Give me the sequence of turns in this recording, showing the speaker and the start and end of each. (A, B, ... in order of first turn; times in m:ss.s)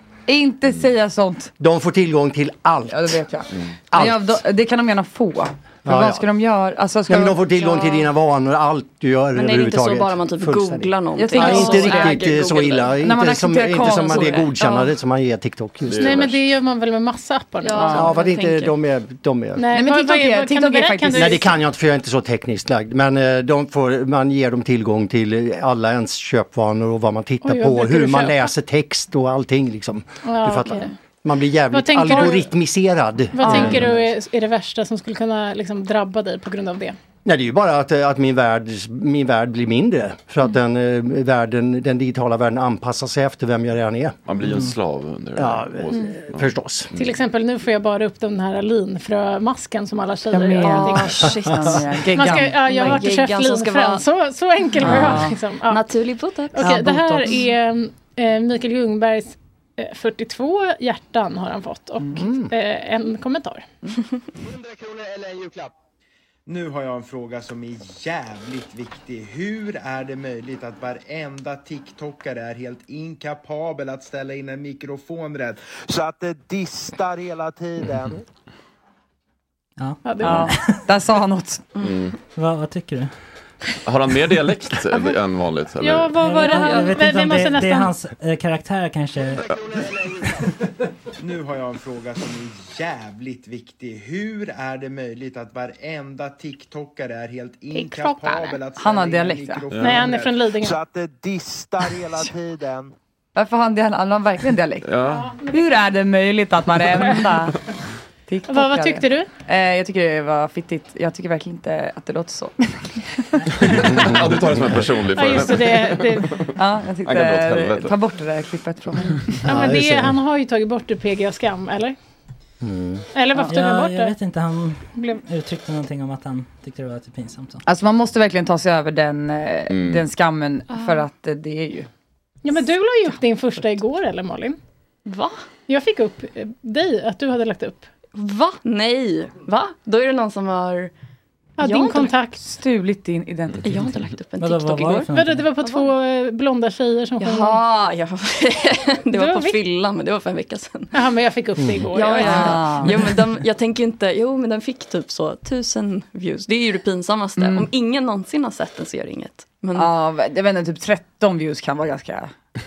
0:00.3-0:01.5 A
0:01.6-0:03.2 B
0:02.9-0:07.4 A
0:03.9-0:04.4 B
0:05.8-0:06.2 B
0:07.1-0:16.3 B
0:07.6-0:08.0 C
0:09.3-0:12.9 C
0:11.2-0:14.5 A
0:13.9-0:14.9 C
0:15.8-0:16.4 D
0:16.0-0:18.0 E
0:17.6-0:18.7 C
0:17.9-0:19.7 B
0:19.6-0:21.5 E
0:19.7-0:21.5 A
0:21.1-0:33.9 B
0:27.4-0:28.5 E
0:30.2-0:30.9 E
0:31.7-0:32.5 E
0:33.3-0:37.0 E
0:33.4-0:33.7 A
0:37.2-0:44.2 B
0:44.3-0:47.1 D
0:45.4-0:46.9 B
0:46.9-0:51.3 E
0:50.3-0:52.6 A
0:50.6-0:54.0 C
0:52.1-0:55.8 E
0:54.8-0:56.8 C
0:54.8-0:55.4 A
0:56.5-1:03.6 E
0:56.6-0:57.2 A
1:02.2-1:02.5 B
1:04.5-1:05.7 F
1:06.4-1:18.2 F
1:19.8-1:20.8 G
1:20.0-1:20.5 E
1:20.2-1:21.7 A
1:21.8-1:22.2 D
1:22.3-1:23.1 G
1:23.8-1:26.1 D
1:25.8-1:27.9 E
1:26.2-1:29.5 G
1:26.5-1:26.8 C
1:31.2-1:42.9 F
1:37.7-1:38.5 E
1:38.8-1:39.7 A
1:39.7-1:40.0 D
1:39.8-1:40.7 E
1:43.4-1:47.6 A
1:44.8-1:45.4 D
1:45.1-1:45.6 E
1:48.3-1:53.6 A
1:48.5-1:49.3 E
1:53.6-1:56.5 D
1:55.1-1:56.3 E
1:56.5-1:59.4 A
1:57.0-1:57.9 D
1:59.4-2:00.2 B
1:59.4-2:02.0 E
2:02.6-2:03.0 B
2:03.1-2:04.1 E
2:03.5-2:07.6 G
2:07.6-2:11.9 A
2:09.7-2:10.0 D
2:10.7-2:11.0 C
2:12.4-2:14.6 E
2:15.0-2:15.4 C
2:15.7-2:17.9 E
2:18.1-2:20.9 C
2:21.6-2:22.4 E
2:21.6-2:22.1 C
2:22.4-2:23.7 A
2:23.6-2:25.1 C
2:24.4-2:25.5 G
2:25.1-2:27.6 E
2:25.6-2:25.9 C
2:27.2-2:30.9 C
2:29.1-2:29.6 E
2:30.9-2:32.8 E
2:31.9-2:39.9 C
2:32.2-2:32.9 A
2:37.4-2:37.7 A
2:39.7-2:42.3 A